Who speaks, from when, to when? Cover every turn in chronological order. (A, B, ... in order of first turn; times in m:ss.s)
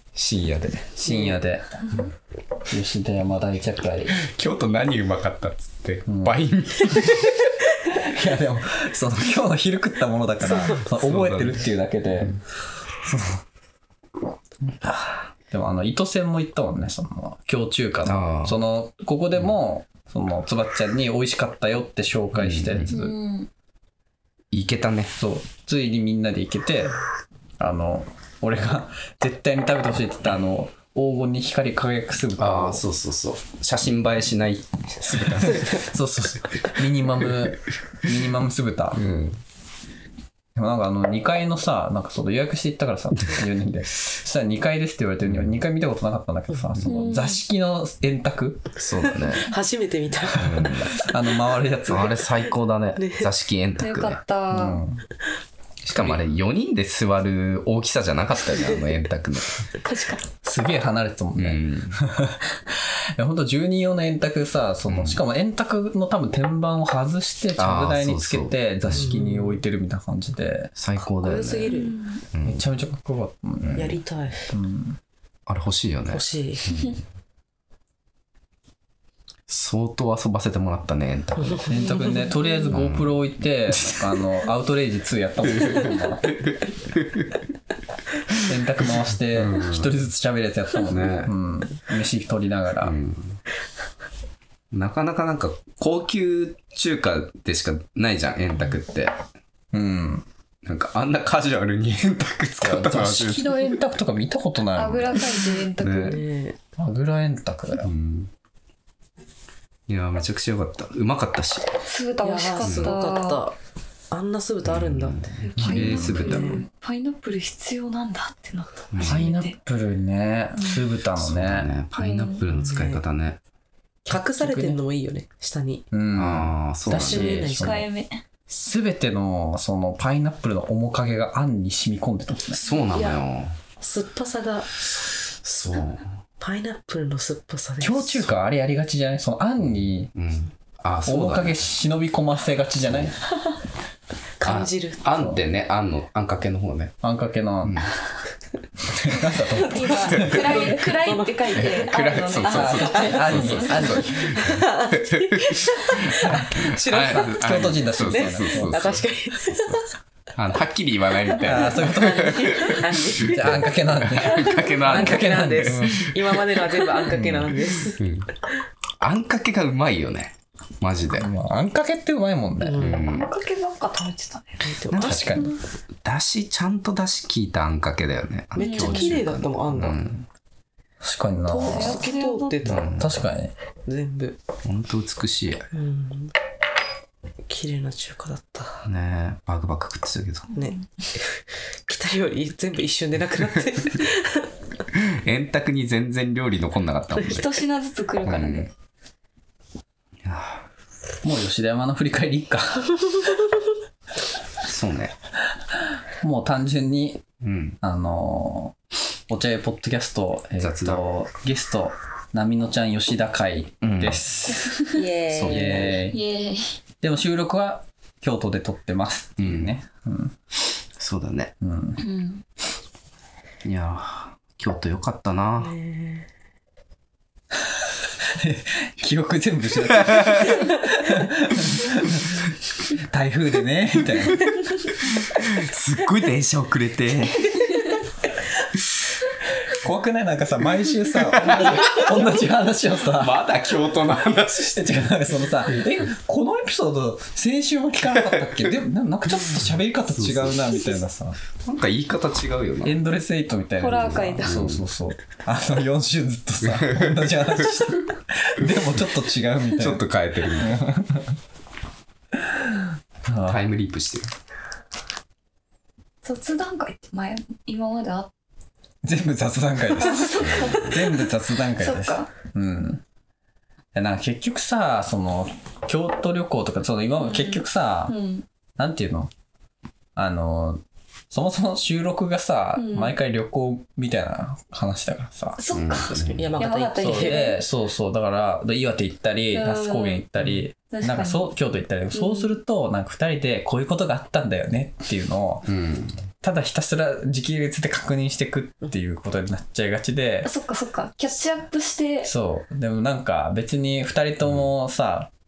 0:00.1-0:00.9 A
0:01.0-0:01.4 B
0:01.0-0:01.9 C
0:02.7-0:04.2 C
0:04.2-0:07.5 A
0:06.1-0:06.4 C
0:07.9-0:12.4 C
0:10.4-0:10.8 B
0:10.7-0:11.6 A
0:12.9-0:13.4 C
0:14.8-0:23.1 C
0:18.0-0:18.6 A
0:22.3-0:22.9 A
0:22.9-0:23.5 D
0:24.5-0:25.1 A
0:25.2-0:26.9 C
0:27.6-0:32.8 C
0:32.4-0:35.8 A
0:35.4-0:39.1 C
0:39.0-0:39.4 A
0:40.5-0:48.6 C
0:45.2-0:45.6 A
0:46.8-0:47.4 D
0:48.8-0:49.5 A
0:49.1-0:50.9 B
0:50.4-0:51.1 A
0:51.0-0:52.2 C
0:51.9-0:54.2 A
0:53.0-0:53.3 B
0:53.8-0:54.8 D
0:54.5-0:55.0 C
0:55.8-0:59.7 A
0:59.8-1:00.2 D
1:00.4-1:10.7 C
1:01.4-1:02.0 A
1:04.9-1:05.2 A
1:07.6-1:09.2 A
1:08.9-1:09.5 B
1:10.8-1:11.8 A
1:11.0-1:12.0 B
1:11.7-1:12.2 D
1:12.3-1:12.6 A
1:12.4-1:13.9 C
1:13.6-1:13.9 A
1:13.7-1:14.5 B
1:14.5-1:15.0 C
1:15.5-1:17.0 A
1:16.1-1:16.7 B
1:19.5-1:21.9 A
1:21.7-1:26.3 C
1:21.8-1:22.8 D
1:22.7-1:23.1 A
1:25.4-1:27.3 A
1:28.4-1:33.0 C
1:29.3-1:29.9 A
1:30.8-1:31.3 A
1:32.8-1:33.4 A
1:34.7-1:39.2 A
1:39.7-1:40.2 C
1:40.6-1:43.8 A
1:42.6-1:45.4 C
1:44.7-1:46.2 D
1:45.8-1:46.2 A
1:46.0-1:46.6 B
1:46.8-1:47.9 C
1:47.8-1:48.3 A
1:49.9-1:51.8 A
1:51.8-1:53.4 D
1:52.2-1:53.6 B
1:52.6-1:52.9 A
1:54.1-1:56.6 B
1:54.6-1:56.6 A
1:55.5-1:59.5 D
1:55.6-1:56.2 C
1:58.9-1:59.3 A
1:59.0-2:01.7 C
2:00.6-2:00.8 D
2:01.2-2:03.4 A
2:02.0-2:02.4 D
2:02.5-2:03.0 B
2:04.0-2:04.8 C
2:04.1-2:05.9 B
2:05.9-2:07.9 C
2:06.1-2:07.6 A
2:06.9-2:07.9 B
2:07.6-2:08.2 D
2:08.5-2:12.6 C
2:12.6-2:13.5 A
2:12.9-2:13.2 B
2:13.8-2:14.7 B
2:15.4-2:16.1 A
2:16.4-2:18.3 B
2:17.8-2:20.1 C
2:20.1-2:21.6 A
2:21.0-2:23.2 C
2:24.4-2:25.0 B
2:24.4-2:26.9 A
2:27.0-2:27.8 C
2:27.6-2:27.9 A
2:28.8-2:30.6 C
2:29.4-2:34.3 D
2:29.8-2:32.2 B
2:30.2-2:30.5 A
2:31.5-2:39.8 A
2:32.5-2:34.4 C
2:32.9-2:33.4 B
2:34.0-2:39.9 B
2:36.1-2:39.0 C
2:40.3-2:43.3 A
2:41.4-2:46.2 C
2:41.7-2:43.7 B
2:44.0-2:46.1 A
2:44.3-2:44.8 D
2:44.8-2:48.0 B
2:47.1-2:48.3 A
2:49.0-2:51.3 A
2:51.2-2:53.0 C
2:52.6-2:53.0 B
2:52.8-2:53.3 A
2:53.1-2:54.8 D
2:54.6-2:55.6 B
2:54.9-2:55.4 A
2:55.0-2:55.5 C
2:56.0-3:00.2 A
2:58.5-3:00.0 B
2:58.6-2:59.1 D
3:01.0-3:02.0 C
3:01.5-3:02.9 B
3:01.5-3:02.6 D
3:02.6-3:03.1 A
3:02.9-3:03.5 C
3:03.8-3:04.4 B
3:04.6-3:05.7 A
3:05.7-3:06.3 B
3:07.5-3:08.8 B
3:08.8-3:10.5 A
3:10.5-3:14.5 B
3:10.6-3:10.8 D
3:14.9-3:17.7 A
3:17.2-3:18.7 D
3:18.2-3:18.7 A
3:20.2-3:20.6 A
3:21.2-3:23.0 C
3:24.6-3:25.1 A
3:26.2-3:27.2 C
3:27.4-3:27.8 A
3:27.8-3:28.8 C
3:29.3-3:34.8 C
3:30.6-3:31.0 A
3:33.8-3:34.2 A
3:34.6-3:35.0 D
3:34.9-3:36.0 B
3:35.3-3:36.0 A
3:35.4-3:36.2 C
3:36.1-3:36.8 D
3:37.0-3:40.4 C
3:39.4-3:39.7 A
3:41.0-3:41.5 A
3:41.6-3:42.0 C
3:42.0-3:42.4 D
3:43.6-3:45.7 A
3:45.6-3:46.3 B
3:48.2-3:54.6 C
3:50.0-3:50.6 A
3:55.2-3:57.8 A
3:59.6-4:03.4 C
4:01.3-4:02.3 A
4:03.1-4:04.9 A
4:04.4-4:11.4 C
4:10.1-4:10.8 A
4:11.6-4:13.0 A
4:12.8-4:20.0 C
4:13.8-4:14.7 D
4:14.0-4:14.8 A
4:16.6-4:17.3 A
4:19.7-4:20.8 A
4:20.6-4:21.4 C
4:22.5-4:23.6 C
4:23.4-4:24.3 A
4:26.2-4:28.3 D
4:29.0-4:33.0 C
4:30.0-4:32.3 D
4:30.4-4:30.8 A
4:33.9-4:38.2 C
4:37.2-4:38.4 D
4:38.8-4:39.3 C
4:40.2-4:45.6 C
4:42.8-4:43.1 D
4:45.6-4:47.6 D
4:45.7-4:46.5 A
4:46.3-4:47.5 B
4:47.0-4:55.7 C
4:49.5-4:50.2 D
4:50.9-4:51.5 D
4:52.1-4:52.5 D
4:55.7-4:56.2 A
4:56.4-5:00.5 C
5:00.4-5:02.3 D
5:02.2-5:05.3 C